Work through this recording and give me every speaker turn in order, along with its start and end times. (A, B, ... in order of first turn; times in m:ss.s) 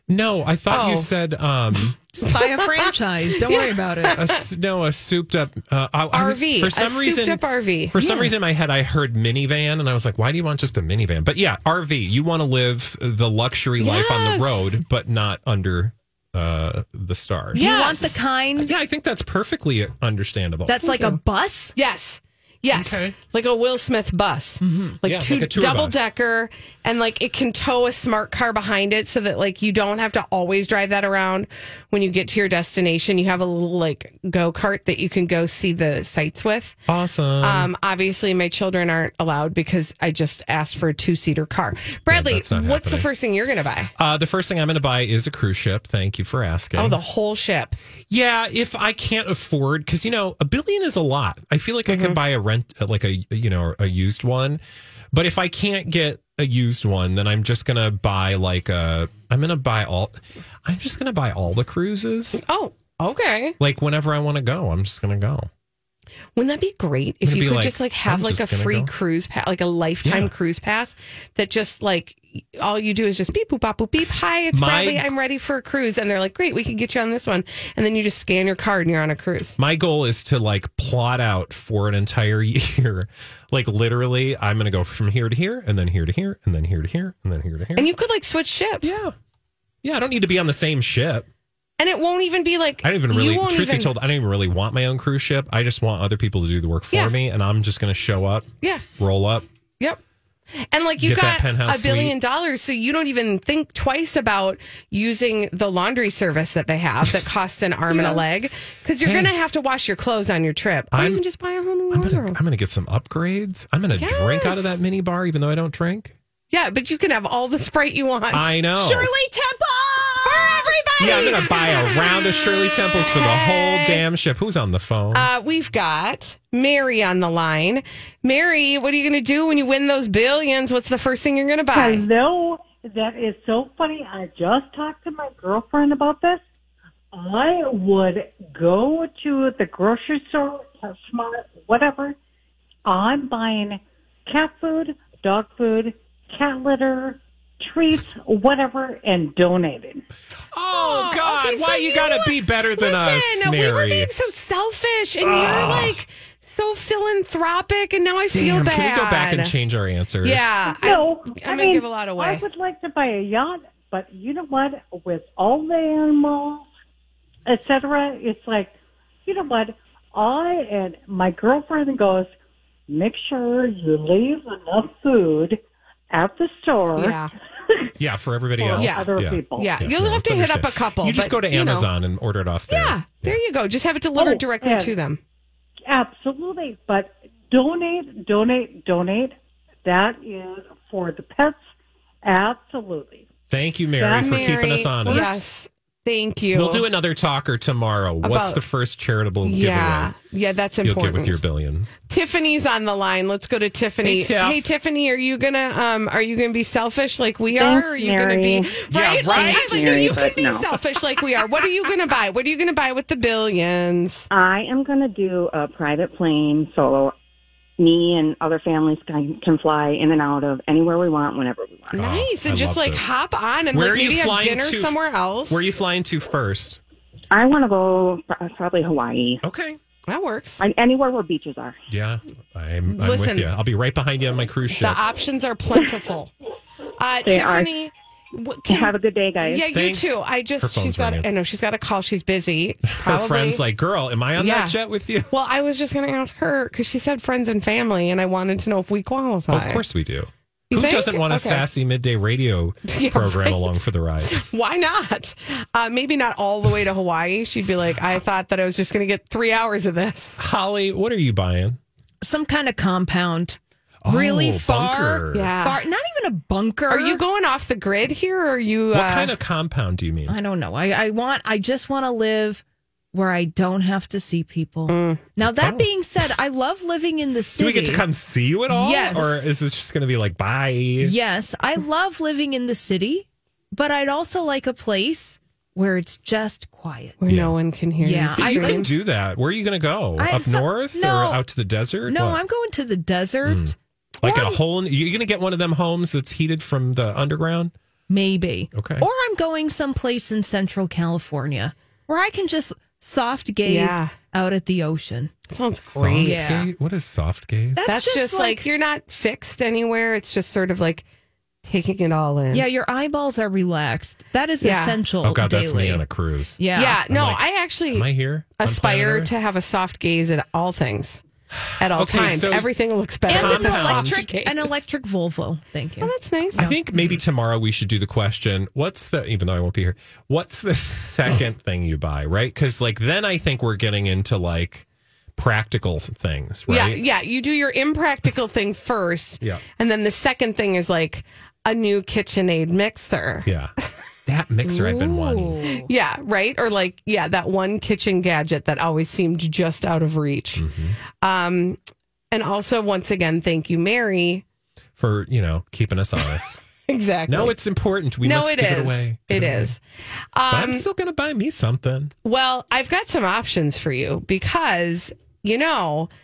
0:00.1-0:02.2 A
0:00.7-0:01.1 B
0:02.2-0:04.2 C
0:02.4-0:02.9 B
0:03.4-0:04.4 B
0:04.1-0:17.7 A
0:06.1-0:08.3 B
0:13.8-0:14.8 B
0:17.5-0:18.2 B
0:17.5-0:18.7 C
0:18.6-0:20.8 A
0:20.7-0:21.8 C
0:20.8-0:21.2 B
0:21.8-0:36.8 B
0:22.7-0:23.2 A
0:24.6-0:25.0 C
0:25.0-0:26.0 A
0:36.9-0:37.7 A
0:37.4-0:43.9 B
0:42.1-0:43.1 A
0:44.0-0:47.0 A
0:46.8-0:47.8 B
0:48.1-0:54.6 A
0:51.9-0:52.2 B
0:55.1-1:02.4 A
1:02.4-1:03.6 B
1:03.6-1:05.5 A
1:06.4-1:19.6 B
1:07.2-1:08.9 A
1:10.0-1:10.3 A
1:14.5-1:15.1 A
1:19.6-1:27.9 A
1:27.8-1:29.0 B
1:28.8-1:29.2 A
1:29.8-1:31.3 A
1:31.8-1:33.9 B
1:32.8-1:39.4 A
1:40.6-1:52.4 B
1:41.0-1:42.2 A
1:47.9-1:48.2 A
1:49.0-1:49.3 A
1:50.9-1:51.2 A
1:51.9-1:56.2 A
1:54.0-1:54.8 B
1:56.5-1:58.6 B
1:58.3-1:59.1 A
1:58.8-2:00.7 C
2:00.2-2:02.0 B
2:01.0-2:05.3 A
2:03.0-2:04.0 B
2:05.1-2:12.0 B
2:11.7-2:16.4 D
2:17.1-2:22.2 D
2:22.9-2:30.0 D
2:30.5-2:34.1 A
2:30.7-2:39.5 B
2:35.2-2:36.0 A
2:38.3-2:40.5 A
2:40.2-2:42.4 B
2:40.7-2:46.7 D
2:47.5-2:52.3 D
2:52.9-2:55.6 D
2:56.1-2:57.9 D
2:57.0-2:57.3 B
2:58.0-3:03.4 A
2:58.6-2:59.7 D
2:58.8-2:59.0 B
2:59.6-3:01.9 B
3:02.7-3:05.2 B
3:04.2-3:05.0 D
3:05.9-3:11.6 D
3:12.2-3:13.3 D
3:13.5-3:15.4 A
3:14.0-3:15.4 D
3:14.2-3:16.8 B
3:16.5-3:20.2 A
3:18.2-3:18.6 B
3:19.4-3:21.4 B
3:20.8-3:21.9 A
3:22.1-3:34.3 B
3:24.0-3:24.7 A
3:27.5-3:30.7 E
3:28.9-3:30.2 A
3:34.3-3:37.2 E
3:37.8-3:42.0 E
3:41.9-3:43.1 A
3:41.9-3:45.7 B
3:43.7-3:44.9 A
3:45.5-3:46.8 A
3:47.3-3:49.4 E
3:49.4-3:49.8 A
3:50.1-3:50.6 B
3:50.6-3:51.8 E
3:51.9-3:55.0 A
3:52.9-3:53.5 B
3:54.8-3:56.3 B
3:57.0-4:03.6 B
3:57.2-3:57.7 E
3:58.7-3:59.7 E
3:59.7-4:01.3 A
4:02.9-4:05.3 A
4:04.4-4:04.8 B
4:05.3-4:09.8 B
4:09.5-4:14.4 A
4:10.7-4:11.6 B
4:12.9-4:20.4 B
4:20.4-4:21.8 A
4:22.2-4:27.2 C
4:24.0-4:25.5 A
4:24.8-4:25.8 B
4:26.9-4:29.3 B
4:28.9-4:30.4 A
4:30.3-4:38.0 C
4:34.9-4:35.2 B
4:35.4-4:35.9 A
4:37.6-4:41.2 A
4:38.7-4:39.5 C
4:41.0-4:47.2 C
4:47.2-4:48.9 B
4:47.3-4:47.6 A
4:48.0-4:48.9 C
4:48.4-4:52.4 A
4:50.2-4:51.4 C
4:52.1-4:53.8 C
4:53.4-4:57.7 A
4:54.2-4:54.6 B
4:58.1-5:05.3 C
4:58.7-4:59.1 A
5:03.6-5:04.2 B
5:05.5-5:06.7 B
5:06.0-5:07.8 A
5:06.2-5:06.7 C
5:07.8-5:08.6 C
5:07.8-5:11.0 B
5:11.6-5:12.7 B
5:12.5-5:16.0 C
5:14.6-5:15.0 B
5:15.2-5:19.3 A
5:16.6-5:17.0 C
5:16.7-5:18.1 B
5:18.6-5:21.2 B
5:21.7-5:22.7 A
5:21.8-5:24.8 B
5:23.3-5:24.2 A
5:23.3-5:26.8 C
5:26.0-5:26.7 B
5:26.6-5:37.0 A
5:36.7-5:43.5 B
5:43.4-5:43.7 A
5:44.3-5:45.6 A
5:44.7-5:50.7 B
5:45.5-5:45.8 C
5:50.6-5:51.0 A
5:51.2-5:51.8 B
5:52.3-5:54.4 B
5:55.0-5:56.6 A
5:56.9-5:57.6 B
5:57.3-5:59.8 A
5:58.2-5:59.8 B
6:00.3-6:00.8 B
6:00.5-6:02.1 A
6:02.2-6:06.1 B